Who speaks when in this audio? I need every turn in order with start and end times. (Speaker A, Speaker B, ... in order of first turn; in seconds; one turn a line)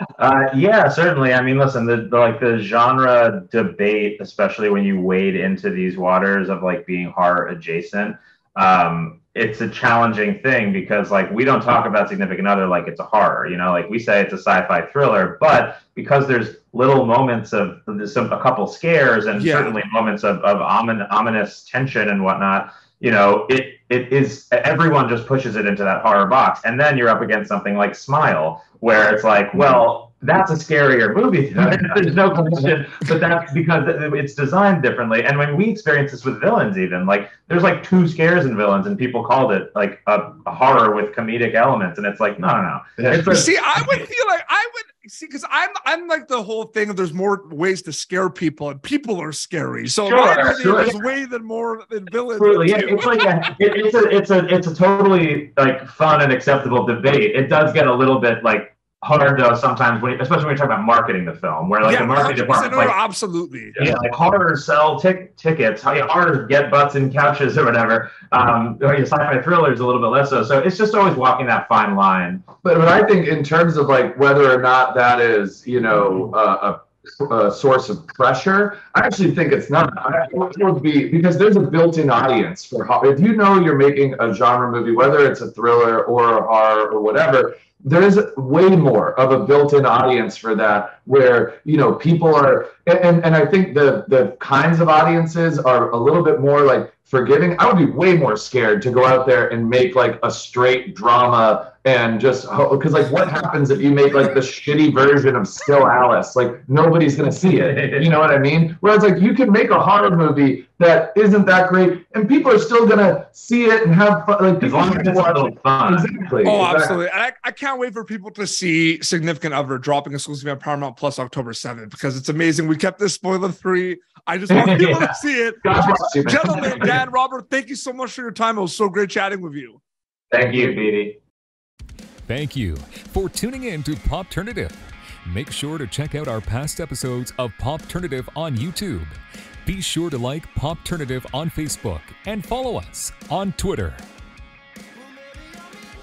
Speaker A: 0.2-43.1
Speaker B: 19.3-19.8
Speaker C: 31.5-32.7
Speaker C: 43.0-43.5
Speaker B: 43.1-53.5
Speaker A: 50.0-50.9
Speaker C: 50.2-50.9
Speaker A: 52.4-63.0
Speaker B: 61.8-63.8
Speaker A: 63.8-72.5
Speaker C: 72.6-117.0
Speaker A: 107.7-108.1
Speaker A: 114.6-116.1
Speaker B: 116.4-129.8
Speaker A: 124.5-125.0
Speaker C: 125.6-126.9
Speaker A: 130.3-131.2
Speaker D: 132.2-144.0